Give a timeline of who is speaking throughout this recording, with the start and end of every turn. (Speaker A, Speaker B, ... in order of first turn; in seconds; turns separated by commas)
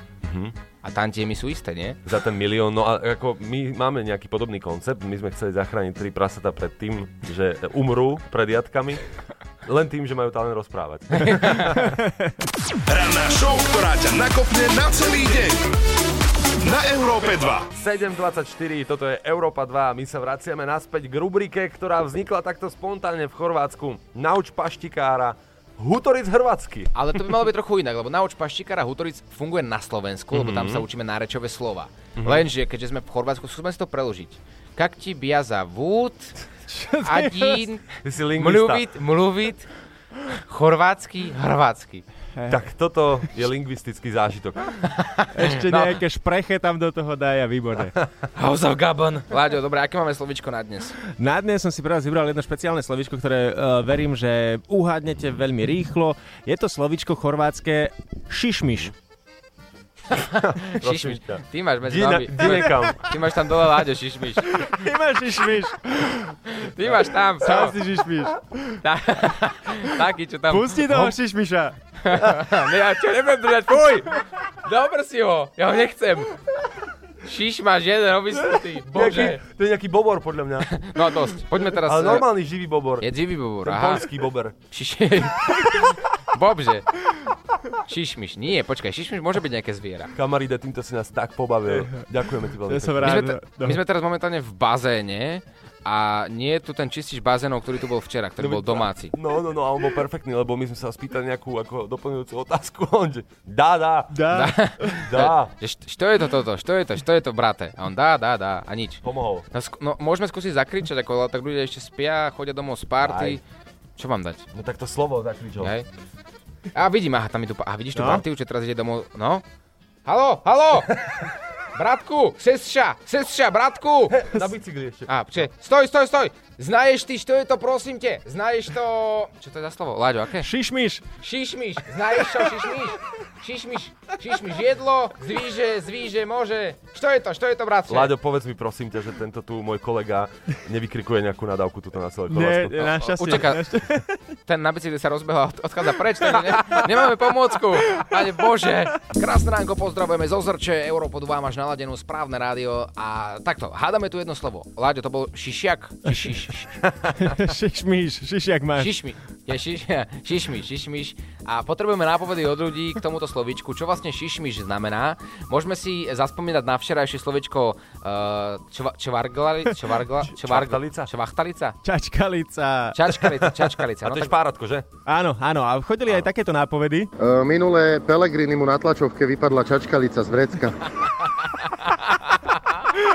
Speaker A: 0.2-0.5, Speaker B: 0.8-2.0, Speaker A: 2.1-9.0, Speaker A: 9.7-12.0, Speaker B: 11.1-11.7, Speaker C: 12.9-15.6, Speaker C: 16.6-17.7, Speaker A: 17.7-26.9, Speaker B: 26.9-36.4, Speaker A: 30.3-30.9, Speaker A: 32.2-32.5, Speaker D: 36.7-37.6, Speaker B: 37.0-39.7, Speaker A: 38.0-38.8, Speaker B: 40.3-42.1, Speaker A: 42.5-44.8, Speaker B: 44.8-46.0, Speaker D: 45.3-47.9, Speaker B: 48.2-51.0, Speaker D: 51.1-58.9, Speaker B: 60.1-64.9, Speaker A: 60.4-63.0, Speaker D: 62.4-62.8, Speaker D: 64.4-66.3, Speaker B: 66.5-67.8, Speaker D: 67.4-68.8, Speaker B: 68.8-71.2, Speaker D: 70.5-71.8, Speaker B: 72.0-76.4, Speaker B: 77.2-79.4, Speaker A: 78.9-80.7, Speaker B: 80.6-82.3, Speaker A: 81.8-83.1, Speaker B: 83.0-84.1, Speaker A: 83.7-84.5, Speaker B: 84.7-86.9, Speaker B: 87.8-90.1, Speaker A: 90.2-93.3, Speaker D: 92.7-93.8, Speaker B: 93.0-99.1, Speaker A: 98.4-104.2, Speaker D: 104.1-105.0, Speaker B: 104.3-113.4, Speaker A: 105.1-105.5, Speaker A: 109.0-109.5, Speaker A: 113.0-113.4, Speaker B: 114.0-114.5, Speaker A: 114.5-115.7, Speaker B: 115.6-115.9, Speaker B: 116.7-119.4, Speaker D: 118.0-118.2, Speaker B: 120.0-121.0, Speaker B: 121.7-124.3, Speaker A: 124.1-125.1, Speaker B: 125.1-130.5, Speaker D: 130.4-131.1, Speaker B: 131.2-138.2, Speaker A: 137.9-142.8, Speaker D: 142.3-144.2, Speaker B: 142.7-143.7, Speaker B: 144.5-156.8, Speaker D: 157.0-158.9, Speaker B: 158.8-171.8, Speaker A: 170.4-171.1, Speaker D: 171.8-173.0, Speaker B: 172.9-174.4, Speaker A: 173.5-174.9, Speaker D: 175.1-177.1, Speaker E: 177.2-180.8, Speaker B: 181.0-182.9